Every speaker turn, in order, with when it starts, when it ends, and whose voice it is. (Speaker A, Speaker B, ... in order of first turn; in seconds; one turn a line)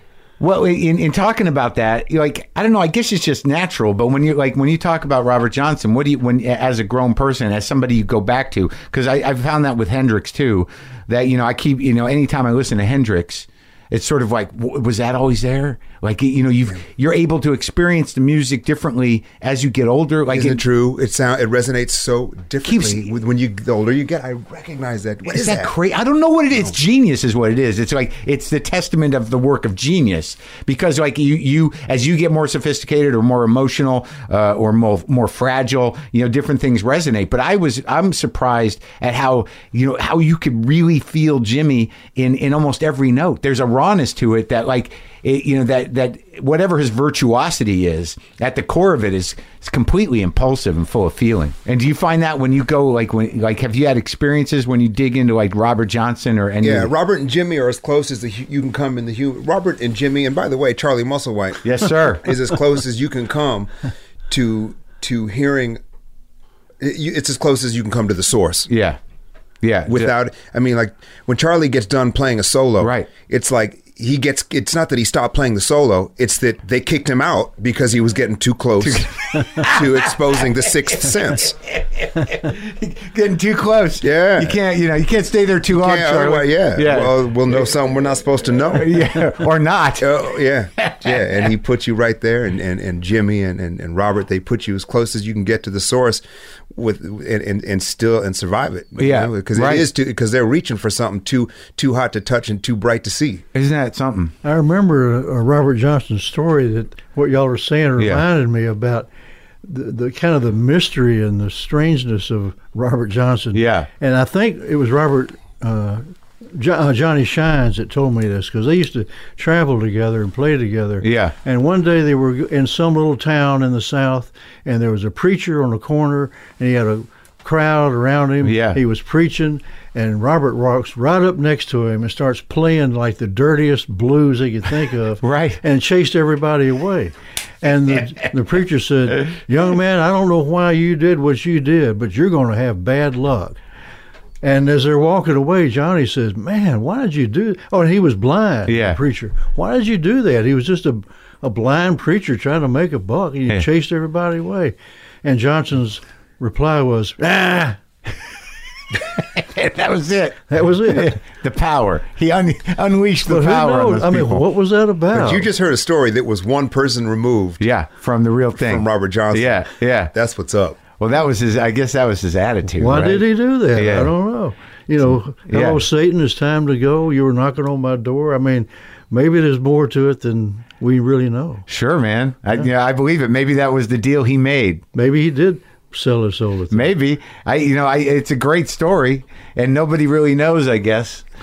Speaker A: 0.4-20.6
Speaker B: 20.3-25.7
Speaker A: 22.6-23.1
Speaker A: 25.2-56.9
Speaker B: 56.6-63.7
Speaker A: 61.6-62.3
Speaker B: 64.3-65.8
Speaker B: 66.8-68.7
Speaker A: 68.7-69.0
Speaker A: 69.6-70.1
Speaker B: 69.8-81.5
Speaker A: 72.8-73.1
Speaker A: 78.8-87.7
Speaker B: 84.0-84.6
Speaker B: 85.7-89.3
Speaker A: 88.7-91.5
Speaker B: 90.0-96.2
Speaker B: 96.7-103.4
Speaker A: 99.0-99.9
Speaker A: 103.5-104.3
Speaker C: 104.4-109.1
Speaker A: 108.0-108.2
Speaker C: 109.6-143.6
Speaker A: 113.5-113.9
Speaker A: 121.0-121.3
Speaker A: 128.4-128.8
Speaker A: 135.2-135.6
Speaker C: 144.4-157.8
Speaker A: 148.7-149.0
Speaker A: 158.9-164.4
Speaker C: 160.5-161.2
Speaker C: 163.2-165.5
Speaker B: 165.1-167.6
Speaker A: 167.6-170.1
Speaker B: 168.6-170.8
Speaker A: 171.0-174.1
Speaker C: 172.8-181.6
Speaker A: 175.5-175.8
Speaker A: 181.7-184.8
Speaker C: 184.9-186.9
Speaker A: 186.7-191.2